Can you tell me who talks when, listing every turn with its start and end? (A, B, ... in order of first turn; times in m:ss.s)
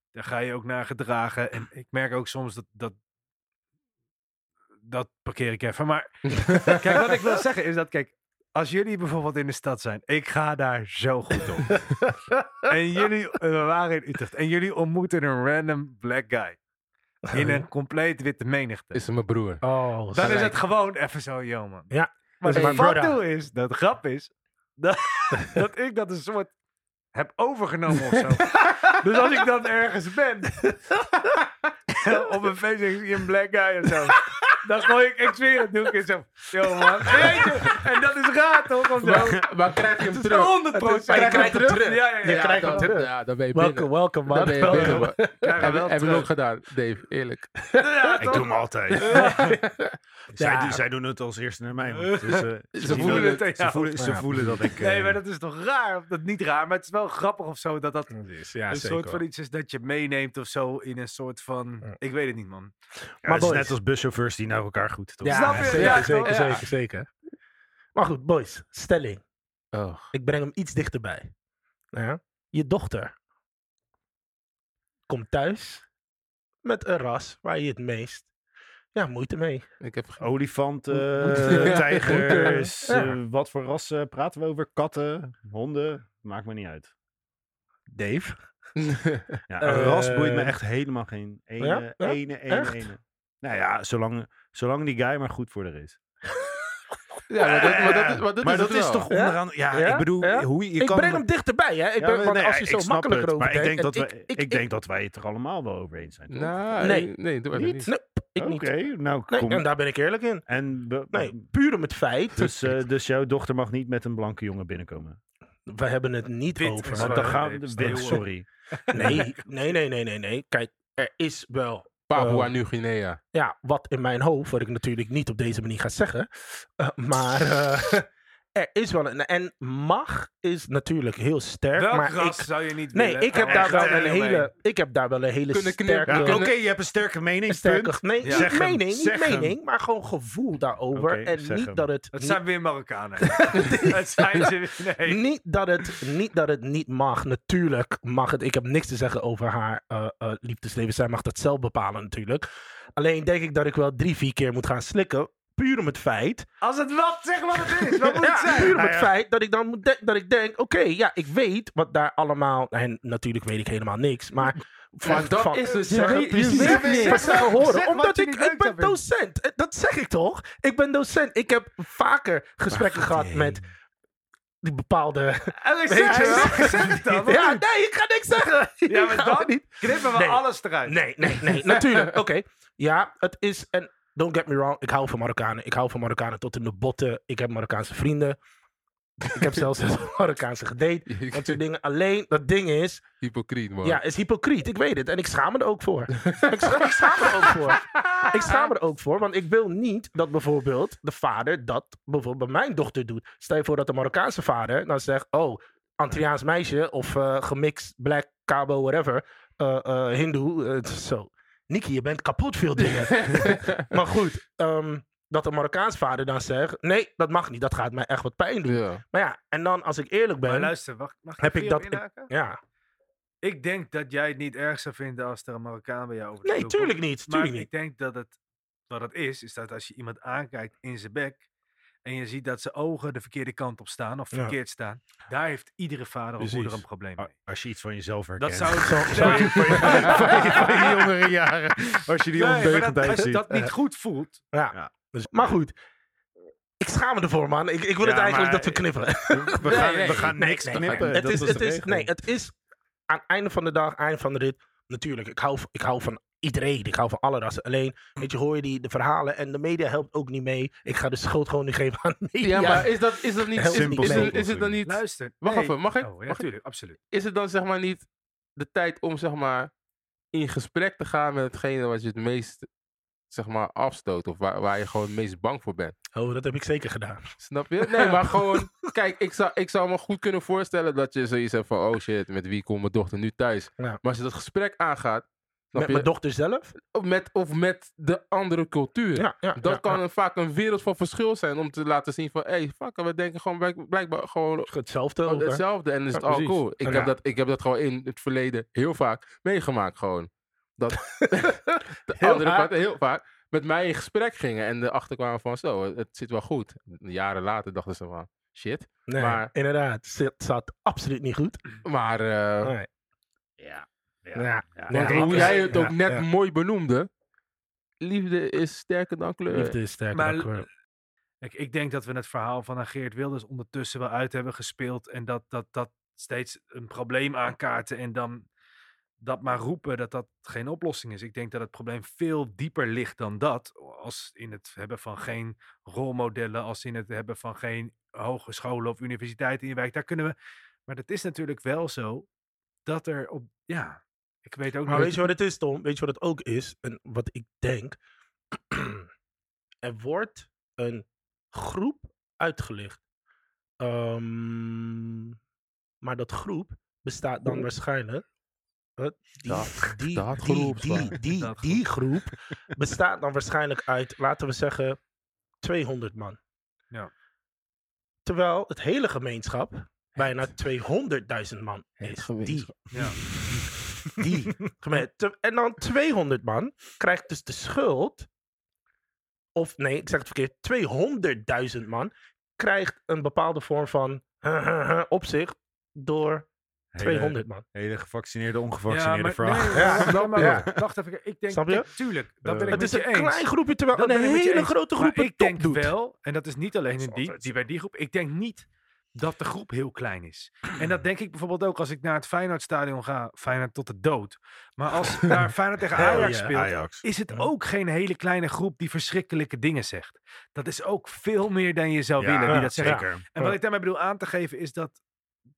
0:00.1-0:02.9 A
0:04.9-0:11.8 A
0:06.4-0:06.8 B
0:12.0-0:12.5 C
0:12.6-0:16.6 A
0:17.3-0:17.6 C
0:17.3-0:19.0 A
0:18.9-0:19.6 B
0:19.6-0:20.6 C
0:20.1-0:20.6 B
0:20.1-0:26.5 A
0:21.9-0:23.2 C
0:22.5-0:22.9 B
0:27.1-0:30.7 A
0:32.0-0:42.9 A
0:36.8-0:37.8 C
0:39.0-0:47.6 B
0:40.7-0:45.6 C
0:44.4-0:46.3 A
0:47.8-0:49.6 A
0:48.2-0:49.5 D
0:49.1-0:49.4 C
0:49.2-0:49.9 B
0:50.4-0:55.2 D
0:50.4-0:50.8 C
0:52.0-0:54.0 A
0:52.7-0:53.4 B
0:54.0-0:54.3 C
0:54.6-0:58.2 A
0:58.1-0:59.2 C
0:58.7-1:02.7 A
1:03.2-1:03.8 C
1:03.2-1:05.9 D
1:05.2-1:07.1 C
1:05.3-1:06.6 A
1:05.7-1:06.6 B
1:07.9-1:09.2 C
1:09.7-1:10.1 B
1:10.1-1:11.3 C
1:11.9-1:13.1 C
1:15.1-1:15.9 C
1:16.6-1:18.3 C
1:18.9-1:19.7 C
1:19.8-1:20.3 B
1:20.2-1:26.9 D
1:20.9-1:23.2 C
1:21.4-1:22.7 B
1:27.9-1:28.4 C
1:28.8-1:29.4 B
1:29.5-1:36.0 D
1:29.6-1:30.6 C
1:31.6-1:32.9 C
1:37.3-1:39.1 B
1:37.4-1:41.2 D
1:39.1-1:44.6 C
1:42.0-1:46.6 D
1:46.3-1:47.9 B
1:46.8-1:47.1 C
1:47.5-1:49.7 D
1:47.9-1:48.7 C
1:49.3-1:50.4 C
1:50.5-1:51.5 D
1:51.1-1:52.8 C
1:52.4-1:55.2 D
1:55.7-1:58.2 C
1:56.6-1:58.3 A
1:56.9-1:59.2 D
1:58.9-1:59.4 A
1:58.9-2:02.5 C
2:02.1-2:03.2 B
2:03.3-2:16.4 C
2:11.8-2:14.5 A
2:13.3-2:14.2 D
2:15.5-2:16.6 B
2:16.1-2:19.6 D
2:17.5-2:22.4 C
2:18.2-2:18.5 A
2:20.9-2:21.9 D
2:22.1-2:25.2 A
2:23.3-2:24.5 C
2:25.0-2:36.5 C
2:36.6-2:38.8 A
2:38.0-2:39.1 D
2:38.2-2:53.6 C
2:45.0-2:47.4 B
2:46.0-2:49.0 A
2:46.5-2:47.4 D
2:52.7-2:53.7 D
2:54.6-3:08.4 C
2:55.6-2:57.6 A
2:56.1-2:56.9 D
2:58.9-3:01.0 A
3:09.3-3:13.0 C
3:11.1-3:11.6 B
3:13.2-3:14.0 B
3:13.8-3:40.7 C
3:16.2-3:18.7 B
3:32.8-3:33.9 B
3:38.6-3:39.0 B
3:40.4-3:42.3 A
3:41.4-3:42.6 C
3:43.4-3:48.4 A
3:46.4-3:47.7 C
3:48.9-3:51.4 A
3:52.0-3:57.3 A
3:56.4-3:56.8 C
3:57.2-4:03.4 D
3:58.4-4:01.1 A
3:58.8-4:00.7 C
4:02.3-4:04.4 A
4:04.5-4:05.8 C
4:04.7-4:05.6 D
4:06.8-4:12.6 C
4:08.0-4:12.1 D
4:09.7-4:11.2 B
4:13.1-4:24.4 C
4:22.4-4:26.5 B
4:23.6-4:24.8 D
4:24.8-4:27.0 A
4:27.1-4:29.7 B
4:30.3-4:32.7 B
4:33.3-4:35.9 B
4:36.1-4:38.6 C
4:37.4-4:46.1 B
4:45.8-4:46.7 C
4:46.8-4:54.7 B
4:49.2-4:50.0 C
4:54.7-4:57.1 C
4:55.3-5:09.5 B
5:01.2-5:02.7 C
5:09.1-5:11.6 C
5:11.8-5:12.7 B
5:12.6-5:12.9 C
5:13.6-5:15.9 D
5:14.4-5:16.2 C
5:14.9-5:17.1 B
5:18.0-5:19.8 B
5:19.5-5:20.7 C
5:20.1-5:20.6 A
5:21.4-5:28.5 A
5:29.2-5:40.4 A
5:40.9-5:42.3 A
5:42.9-5:45.3 A
5:44.9-5:48.0 C
5:48.5-5:49.1 C
5:49.8-5:53.0 C
5:53.8-5:55.4 C
5:56.0-5:58.2 C
5:59.0-6:05.0 C
5:59.5-6:01.2 B
6:01.3-6:01.9 A
6:05.6-6:06.4 C
6:08.2-6:12.9 C
6:12.0-6:13.1 B
6:12.9-6:13.2 A
6:14.1-6:18.3 C
6:19.6-6:26.5 C
6:26.9-6:30.8 D
6:27.0-6:27.6 C
6:28.9-6:55.0 A
6:29.7-6:30.7 C
6:31.5-6:31.9 C
6:32.4-6:32.9 D
6:32.7-6:35.9 C
6:37.0-6:37.5 D
6:45.9-6:47.0 D
6:46.0-6:46.6 C
6:52.2-6:53.2 D
6:52.5-6:53.6 C